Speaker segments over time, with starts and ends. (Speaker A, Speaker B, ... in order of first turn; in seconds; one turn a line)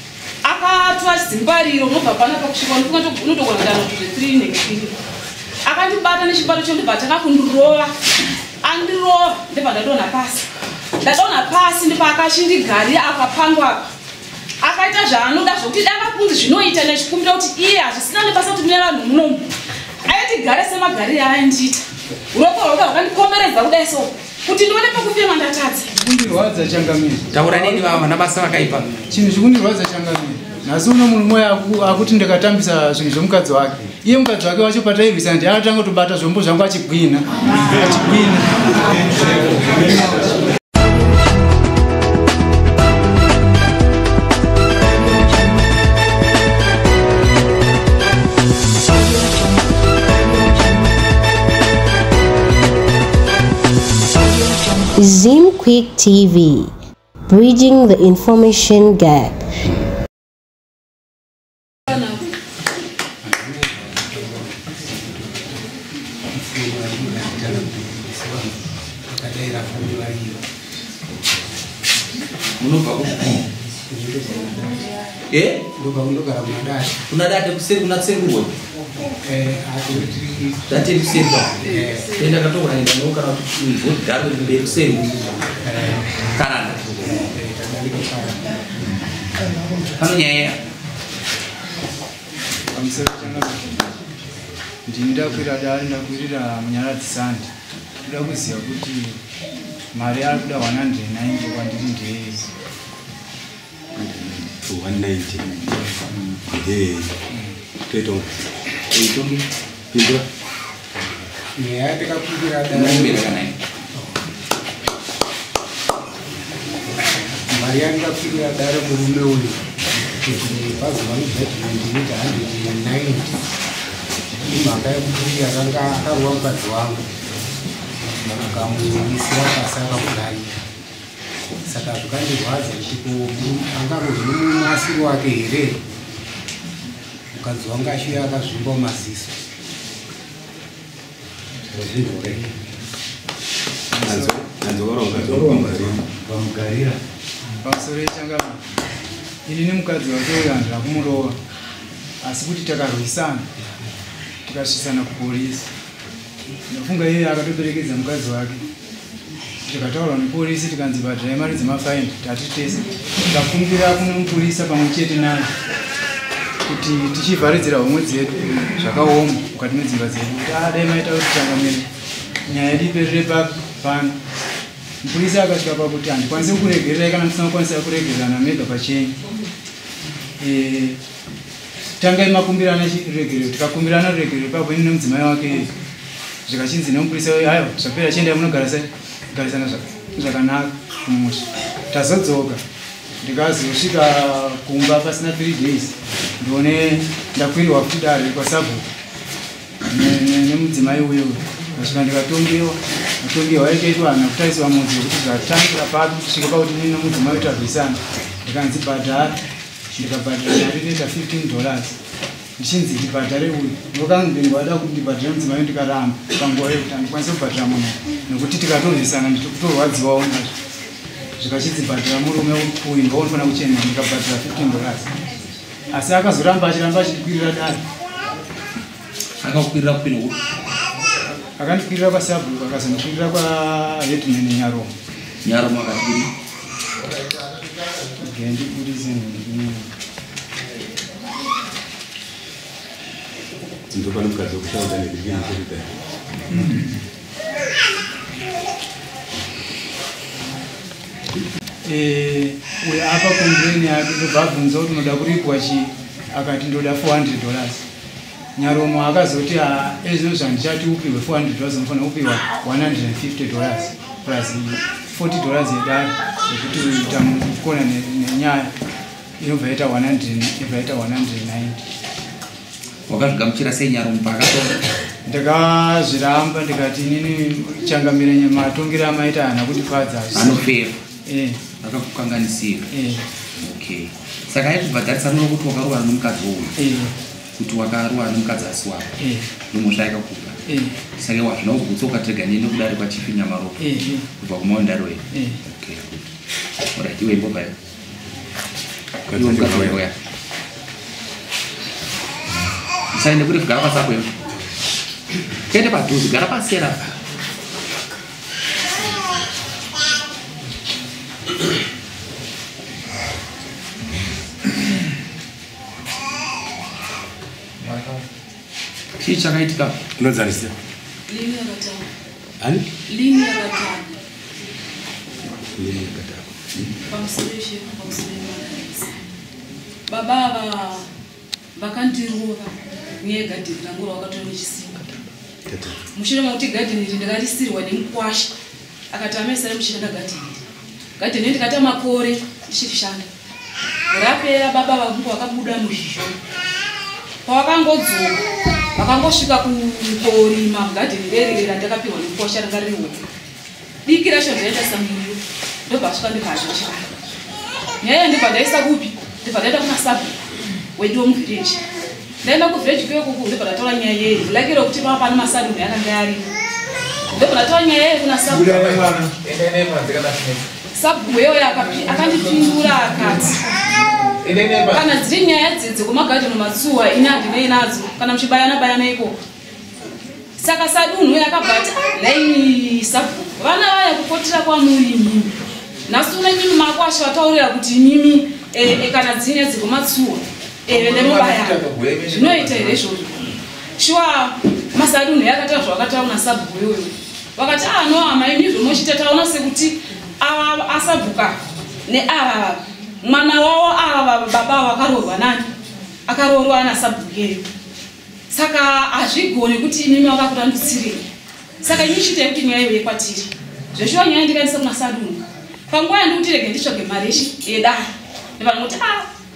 Speaker A: 0.4-4.9
Speaker A: 5.7-7.9
Speaker A: 8.6-10.5
Speaker A: 11.0-13.8
Speaker A: 14.6-19.5
Speaker A: 20.1-25.9
Speaker B: 25.9-27.9
Speaker C: 27.3-28.9
Speaker B: 29.1-40.3
Speaker D: 54.9-56.7
Speaker D: 57.3-59.8
Speaker E: 63.2-65.6
Speaker E: 66.3-70.4
Speaker C: 72.6-73.4
Speaker E: 73.9-74.8
Speaker C: 75.3-75.6
Speaker E: 75.8-76.9
Speaker C: 77.1-78.5
Speaker E: 79.2-80.8
Speaker C: 80.7-85.1
Speaker E: 81.6-82.2
Speaker E: 85.0-88.7
Speaker C: 86.3-86.8
Speaker C: 90.0-90.6
Speaker B: 92.7-93.8
Speaker B: 94.9-97.5
Speaker B: 98.0-99.2
Speaker B: 99.9-102.5
Speaker C: 104.0-104.5
Speaker F: 104.6-105.7
Speaker F: 106.5-107.1
Speaker F: 107.9-108.4
Speaker C: 108.9-109.4
Speaker F: 109.9-110.2
Speaker E: 111.6-113.3
Speaker C: 112.7-113.5
Speaker E: 117.5-123.3
Speaker E: 124.4-127.0
Speaker E: 128.3-130.6
Speaker E: 131.7-135.8
Speaker E: 137.3-139.3
Speaker E: 141.7-142.6
Speaker B: 143.9-144.4
Speaker F: 144.0-146.0
Speaker E: 145.1-147.0
Speaker B: 147.6-148.6
Speaker B: 149.4-151.4
Speaker B: 152.2-153.4
Speaker B: 154.4-155.7
Speaker B: 156.7-158.6
Speaker B: 159.7-165.5
Speaker B: 166.7-171.9
Speaker B: 172.5-174.2
Speaker B: 175.0-179.1
Speaker B: 180.4-181.0
Speaker B: 182.0-185.7
Speaker B: 186.5-192.6
Speaker B: 193.2-198.8
Speaker B: 199.9-209.4
Speaker B: 209.9-211.9
Speaker B: 212.6-220.5
Speaker B: 221.4-225.1
Speaker B: 225.9-227.8
Speaker C: 229.4-230.4
Speaker B: 231.6-234.9
Speaker C: 235.4-236.3
Speaker B: 238.2-239.9
Speaker F: 243.9-245.9
Speaker B: 251.8-257.8
Speaker B: 258.6-268.7
Speaker B: 269.4-271.8
Speaker C: 273.1-274.8
Speaker B: 275.3-280.6
Speaker C: 280.3-281.0
Speaker B: 281.3-281.6
Speaker C: 281.8-282.9
Speaker B: 282.9-283.2
Speaker C: 283.6-286.8
Speaker B: 286.8-287.1
Speaker C: 287.6-289.2
Speaker B: 289.2-289.5
Speaker C: 289.7-290.6
Speaker B: 290.7-291.0
Speaker C: 291.2-296.2
Speaker B: 293.8-294.2
Speaker B: 295.3-295.6
Speaker C: 296.9-297.7
Speaker F: 299.3-300.0
Speaker C: 299.3-300.1
Speaker C: 303.1-304.3
Speaker C: 305.7-307.0
Speaker C: 317.8-318.2
Speaker C: 319.2-320.0
Speaker F: 320.2-320.7
Speaker A: 321.3-322.0
Speaker A: 323.1-324.1
Speaker F: 325.7-326.9
Speaker A: 327.1-329.2
Speaker A: 330.1-331.1
Speaker A: 331.8-335.0
Speaker F: 335.6-336.0
Speaker A: 336.1-338.5
Speaker A: 339.1-340.6
Speaker A: 341.2-343.3
Speaker A: 344.1-346.3
Speaker A: 347.4-348.4
Speaker A: 348.9-353.2
Speaker A: 354.0-357.1
Speaker A: 358.0-360.3
Speaker A: 360.9-361.8
Speaker A: 362.4-366.4
Speaker A: 367.3-368.9
Speaker C: 368.6-370.6
Speaker A: 370.9-373.6
Speaker A: 374.9-379.4
Speaker A: 380.6-385.5
Speaker A: 386.1-393.3
Speaker C: 390.9-393.0
Speaker A: 394.0-405.7
Speaker A: 406.3-407.6
Speaker A: 408.5-411.2
Speaker A: 411.8-419.3